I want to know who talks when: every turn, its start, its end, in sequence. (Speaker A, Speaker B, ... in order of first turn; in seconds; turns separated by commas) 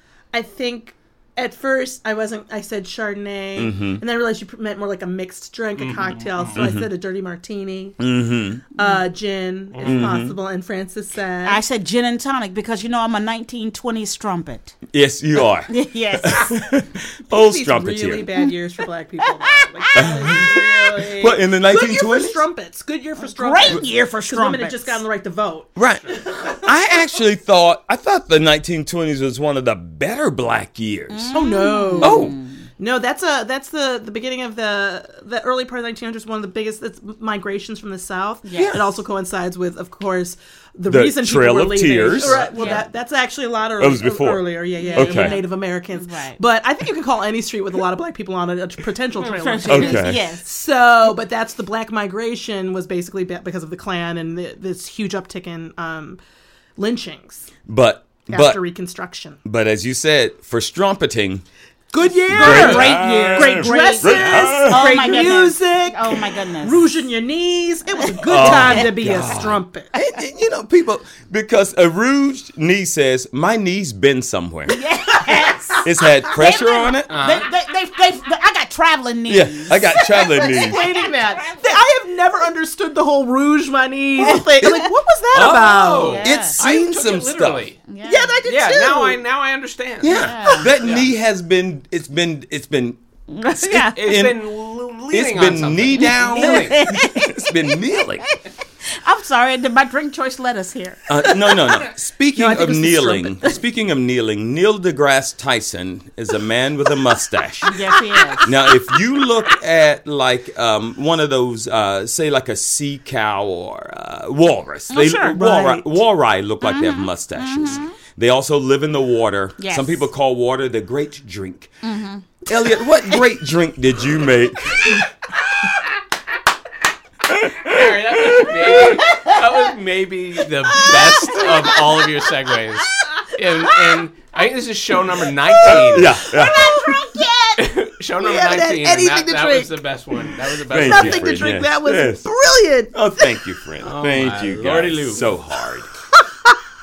Speaker A: 0.3-8.0, Speaker B: 3.5-4.0, Speaker C: 5.8-6.7, Speaker B: 6.5-6.9, Speaker B: 8.0-8.7, Speaker A: 8.8-11.6, Speaker D: 8.8-9.0, Speaker C: 9.7-10.2, Speaker B: 9.8-10.4, Speaker D: 11.4-14.8, Speaker B: 14.9-18.3, Speaker D: 15.7-16.7, Speaker A: 17.3-25.7, Speaker D: 19.2-20.7, Speaker B: 19.9-22.4, Speaker D: 23.2-25.0, Speaker B: 25.8-31.4, Speaker A: 26.2-26.7, Speaker D: 31.1-32.6, Speaker A: 31.3-56.2, Speaker B: 32.0-32.4, Speaker D: 38.5-38.8, Speaker B: 38.5-38.9, Speaker B: 40.9-42.5, Speaker C: 42.2-42.5, Speaker D: 42.5-42.9, Speaker B: 43.8-45.4, Speaker D: 44.8-46.4, Speaker D: 49.2-50.5, Speaker B: 49.7-50.2, Speaker A: 56.8-57.5, Speaker B: 57.7-58.6, Speaker A: 58.3-59.4, Speaker B: 59.5-61.4, Speaker A: 61.9-69.9, Speaker B: 62.3-65.3, Speaker D: 62.3-66.8, Speaker C: 62.5-62.8, Speaker D: 68.2-68.9, Speaker B: 68.3-74.8, Speaker D: 74.7-81.6, Speaker B: 75.8-77.1, Speaker C: 77.1-77.5, Speaker B: 79.3-80.8, Speaker A: 80.2-86.3, Speaker D: 84.2-84.8, Speaker B: 84.2-84.9, Speaker C: 85.3-87.8, Speaker D: 86.0-86.6, Speaker B: 86.1-87.7, Speaker D: 87.9-88.4, Speaker A: 88.0-89.2, Speaker C: 88.5-91.1, Speaker B: 90.0-93.0, Speaker D: 90.1-90.7, Speaker D: 93.3-94.2, Speaker B: 93.6-94.4, Speaker C: 93.8-96.9, Speaker B: 95.1-98.2, Speaker D: 96.3-97.5, Speaker D: 98.9-101.4, Speaker B: 101.1-107.7, Speaker A: 102.3-103.5, Speaker D: 107.6-108.5, Speaker A: 107.7-108.5, Speaker B: 108.4-121.8, Speaker D: 114.9-115.4, Speaker A: 115.3-115.9, Speaker D: 116.6-118.0, Speaker D: 119.6-120.0, Speaker D: 121.8-122.3, Speaker B: 122.5-125.1, Speaker B: 127.3-128.8, Speaker C: 127.7-136.2, Speaker D: 129.0-129.5, Speaker A: 130.9-131.6, Speaker D: 131.4-131.8, Speaker A: 135.7-136.9, Speaker B: 135.8-136.9, Speaker D: 136.2-137.7, Speaker C: 137.6-141.4, Speaker A: 138.2-142.9, Speaker B: 140.7-142.3, Speaker B: 142.9-145.9, Speaker C: 143.8-145.3